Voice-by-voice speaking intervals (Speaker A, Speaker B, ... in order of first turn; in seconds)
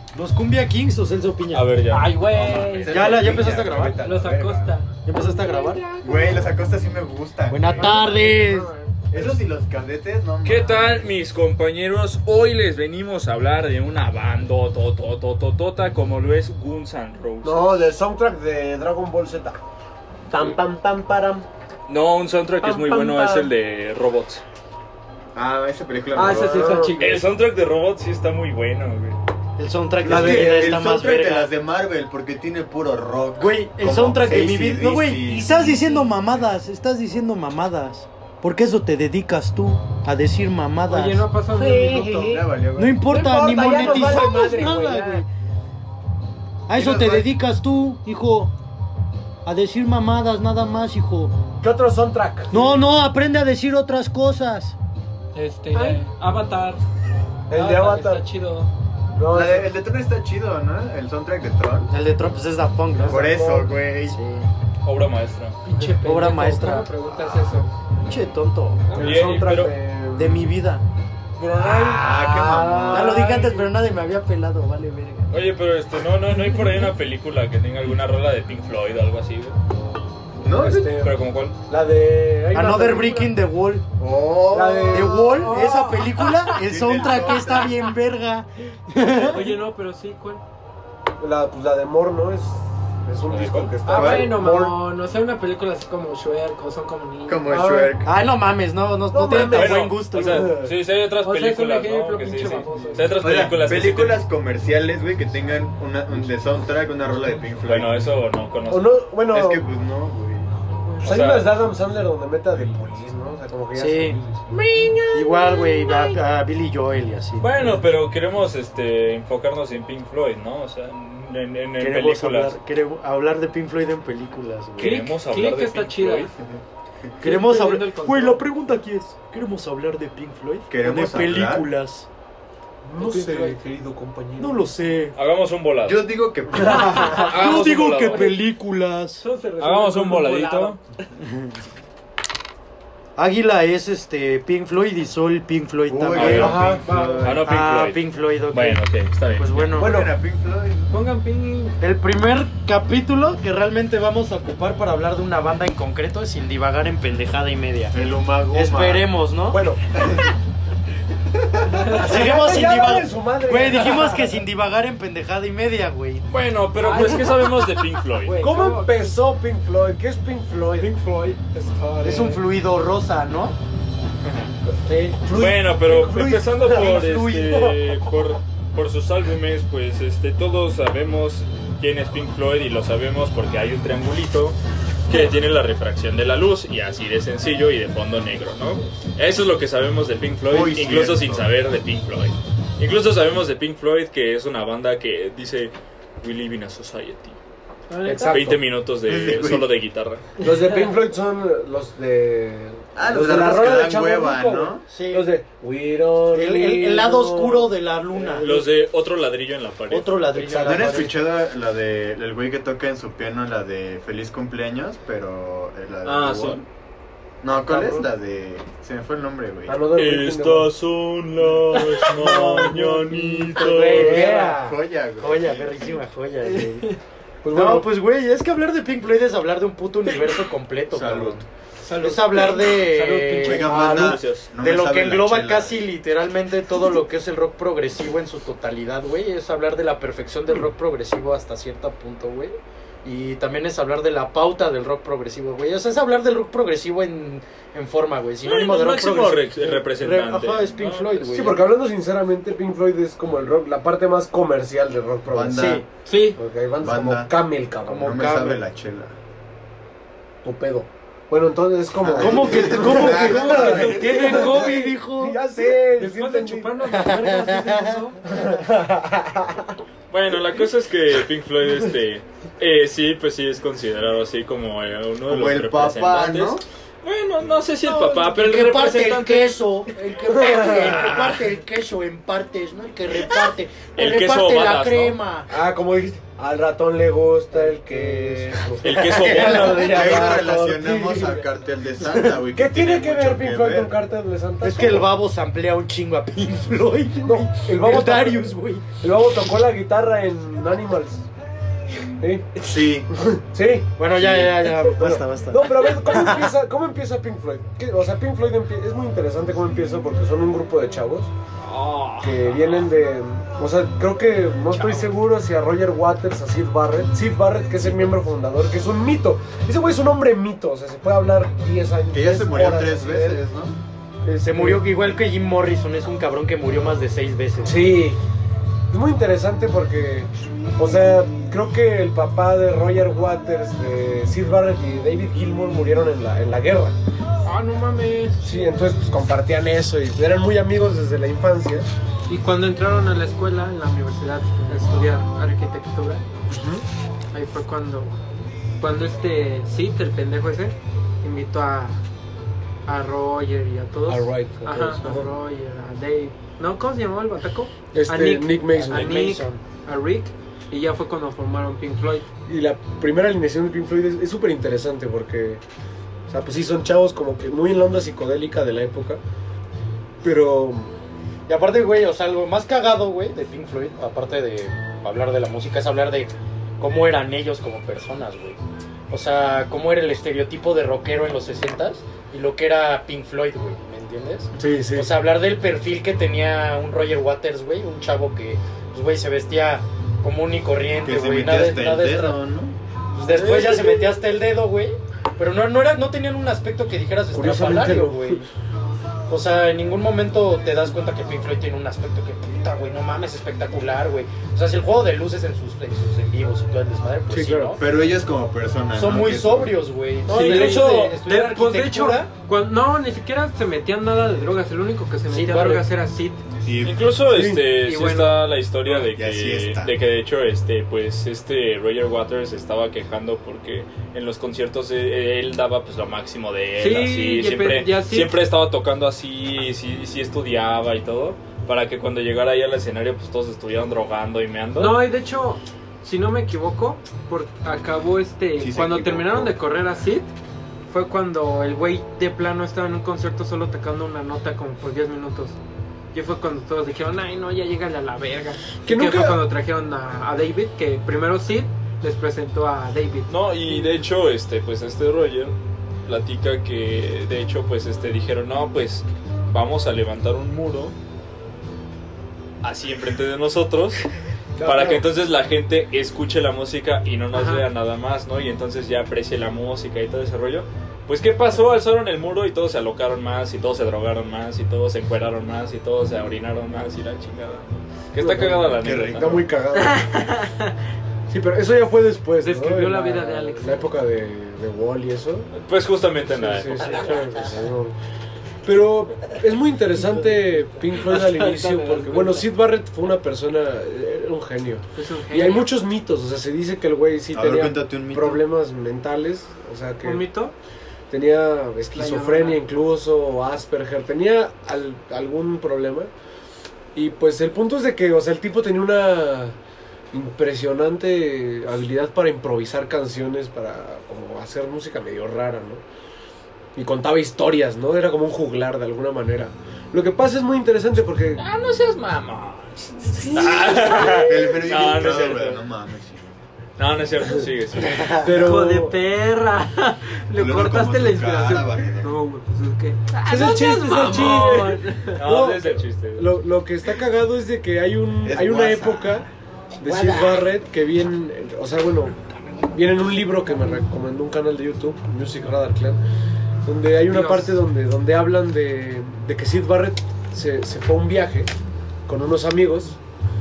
Speaker A: 0.1-4.0, 5.0-5.8, 7.5-8.7, 29.6-31.5, 33.4-41.3, 42.8-45.3, 46.7-48.5, 49.5-51.4, 52.5-54.8, 61.9-63.4, 64.1-64.5, 66.0-66.9, 68.0-68.8, 70.1-70.8, 71.6-75.4, 82.5-83.8, 84.9-89.6, 98.0-100.5, 113.8-114.2, 115.1-117.8, 121.8-125.0, 127.2-132.1, 134.4-135.2, 136.8-139.2, 141.2-141.6, 143.2-146.7, 147.4-150.0, 151.8-158.0, 158.5-159.7, 161.9-166.3, 172.0-173.6, 176.7-177.3, 204.9-205.3, 206.3-208.5, 209.9-211.2, 217.5-218.1, 222.2-224.6, 225.2-226.9, 227.5-231.4, 232.0-251.6, 255.5-255.8, 257.9-258.6, 262.2-265.4, 266.9-268.0, 277.9-285.5, 288.2-290.5, 292.0-292.4, 294.6-298.9, 304.0-306.5, 324.4-327.9, 358.7-359.6, 371.5-392.4, 393.1-398.5, 399.3-407.9, 408.9-412.3, 415.3-415.9, 539.9-540.4
Speaker B: 1.5-3.5, 10.4-17.9, 21.9-24.4, 27.0-29.2, 64.8-65.6, 68.9-69.8, 71.4-72.0, 75.3-79.6, 80.7-81.6, 93.3-93.8, 99.3-104.2, 107.6-109.0, 111.0-111.6, 117.4-122.6, 124.8-126.3, 135.2-136.1, 136.6-138.4, 139.6-140.8, 146.2-146.6, 147.2-149.5, 166.3-168.4, 174.2-174.5, 175.3-197.4, 198.3-200.2, 208.4-210.2, 216.0-216.6, 219.9-224.2, 233.9-234.5, 248.4-251.2, 270.1-279.6, 280.4-281.5, 284.0-285.2, 288.8-290.3, 311.6-312.9, 410.4-410.7, 416.8-435.0, 453.3-460.9, 462.6-464.1, 464.6-479.4, 485.5-487.3, 521.4-525.6, 526.8-528.3, 534.0-536.4
Speaker C: 2.3-3.0, 4.0-6.4, 7.9-8.3, 26.1-27.2, 40.9-42.3, 55.3-56.8, 57.5-58.7, 65.7-67.8, 85.7-86.4, 89.3-90.4, 93.8-97.9, 101.2-103.3, 110.6-111.1, 114.5-116.1, 124.8-126.3, 127.2-128.5, 133.0-133.6, 138.0-138.3, 139.2-140.8, 146.3-147.4, 150.9-151.8, 166.8-169.2, 170.8-171.5, 197.9-198.6, 200.4-200.8, 226.5-227.0, 231.8-234.0, 256.1-256.4, 263.2-265.0, 266.0-268.3, 337.4-338.6, 342.3-346.2, 347.3-348.2, 348.8-352.0, 352.9-362.3, 410.3-416.4, 417.8-418.4, 426.8-428.4, 434.8-440.3, 440.9-445.6, 446.1-453.9, 467.3-467.7, 479.9-480.7, 482.4-483.9, 490.0-492.5, 495.0-495.7, 500.0-500.5, 501.9-502.6, 528.3-535.2, 547.1-547.6
Speaker D: 2.9-4.4, 7.8-8.7, 17.4-19.6, 20.3-21.5, 22.6-23.5, 26.3-27.0, 30.0-30.7, 41.6-42.5, 43.1-45.2, 51.6-52.8, 57.5-58.3, 59.1-59.7, 63.0-63.7, 68.9-70.5, 71.6-73.5, 80.5-81.2, 81.7-83.4, 84.5-85.8, 91.2-94.8, 97.5-97.9, 99.1-100.8, 108.7-109.6, 111.0-115.0, 132.8-134.7, 136.6-137.1, 149.8-150.2, 159.5-159.8, 161.8-164.4, 168.4-172.4, 174.9-177.8, 198.1-198.6, 200.4-208.7, 210.3-211.0, 219.7-220.7, 222.3-224.8, 227.4-227.9, 251.3-255.8, 256.4-258.4, 260.4-266.8, 268.3-269.7, 285.5-291.5, 292.5-295.1, 297.2-301.3, 302.2-302.5, 303.1-311.3, 312.2-323.4, 324.2-324.9, 327.6-328.2, 328.9-337.0, 338.4-341.9, 346.5-346.8, 354.1-355.3, 357.9-359.2, 362.5-365.6, 366.3-369.2, 370.2-370.9, 384.6-385.1, 393.2-394.2, 397.3-398.5, 407.3-407.8, 417.3-417.6, 448.9-449.4, 464.6-465.1, 478.2-480.2, 481.3-485.5, 486.3-488.0, 488.6-500.2, 501.1-506.1, 506.9-509.6, 510.1-515.8, 516.8-521.5, 523.3-523.7, 528.2-529.0, 533.2-539.3, 539.8-542.2, 542.7-546.0, 546.6-551.5, 552.1-553.0
Speaker E: 2.9-4.8, 6.0-8.2, 9.1-11.1, 25.4-26.8, 30.0-36.2, 41.8-43.0, 43.8-44.4, 46.7-47.3, 59.3-61.9, 63.1-64.2, 71.7-73.3, 80.4-80.9, 84.0-85.7, 86.4-87.9, 93.9-94.3, 97.3-98.1, 103.2-108.0, 109.3-110.5, 130.7-131.7, 135.8-137.3, 145.9-147.4, 149.5-151.0, 157.9-159.2, 161.5-161.9, 190.5-191.5, 199.1-199.7, 203.0-204.8, 210.6-216.7, 217.4-219.8, 224.0-226.0, 230.9-231.4, 233.4-235.8, 255.3-255.8, 256.8-257.3, 257.9-259.2, 262.0-264.0, 275.3-276.6, 289.5-294.0, 302.6-303.1, 322.1-323.8, 391.0-392.8, 407.8-409.8, 416.6-417.0, 418.9-419.9, 438.6-439.6, 478.8-479.5, 497.3-498.4, 523.9-526.4, 530.3-532.1, 538.2-539.2